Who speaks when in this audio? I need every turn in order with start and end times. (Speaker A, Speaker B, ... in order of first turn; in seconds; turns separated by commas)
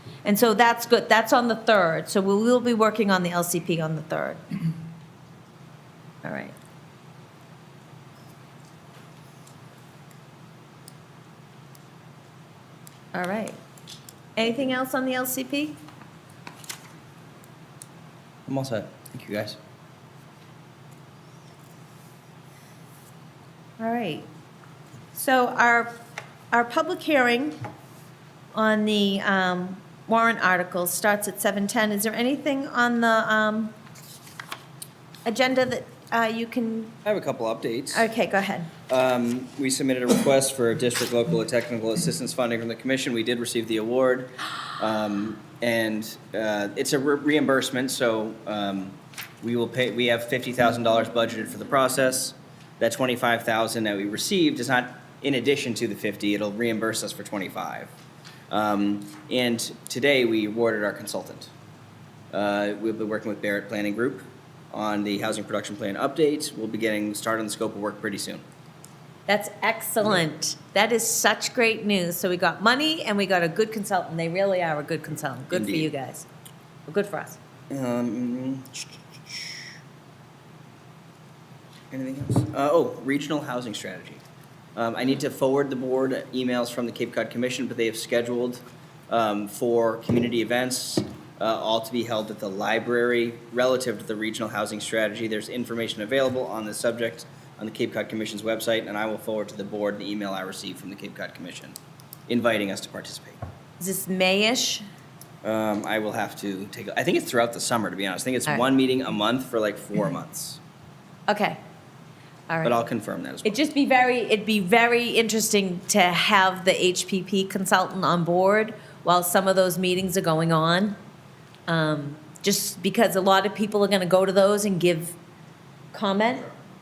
Speaker A: 0.2-4.6, Speaker A: 6.2-6.5, Speaker A: 13.1-13.6, Speaker A: 14.3-15.8, Speaker B: 18.5-19.6, Speaker A: 23.8-24.3, Speaker A: 25.1-25.9, Speaker A: 26.5-27.5, Speaker A: 28.5-33.7, Speaker A: 35.2-37.0, Speaker B: 37.0-38.1, Speaker A: 37.9-38.7, Speaker B: 38.9-57.9, Speaker B: 58.5-61.5, Speaker B: 62.3-68.4, Speaker A: 69.3-76.3, Speaker B: 75.5-75.9, Speaker A: 76.9-77.4, Speaker B: 77.7-79.7, Speaker B: 81.9-84.2, Speaker B: 84.8-101.8, Speaker B: 102.3-103.4, Speaker A: 103.8-104.8, Speaker B: 105.4-110.6, Speaker A: 111.3-111.6, Speaker A: 112.5-112.8, Speaker B: 112.6-113.6, Speaker A: 113.4-121.0, Speaker A: 121.7-125.2, Speaker A: 125.9-126.5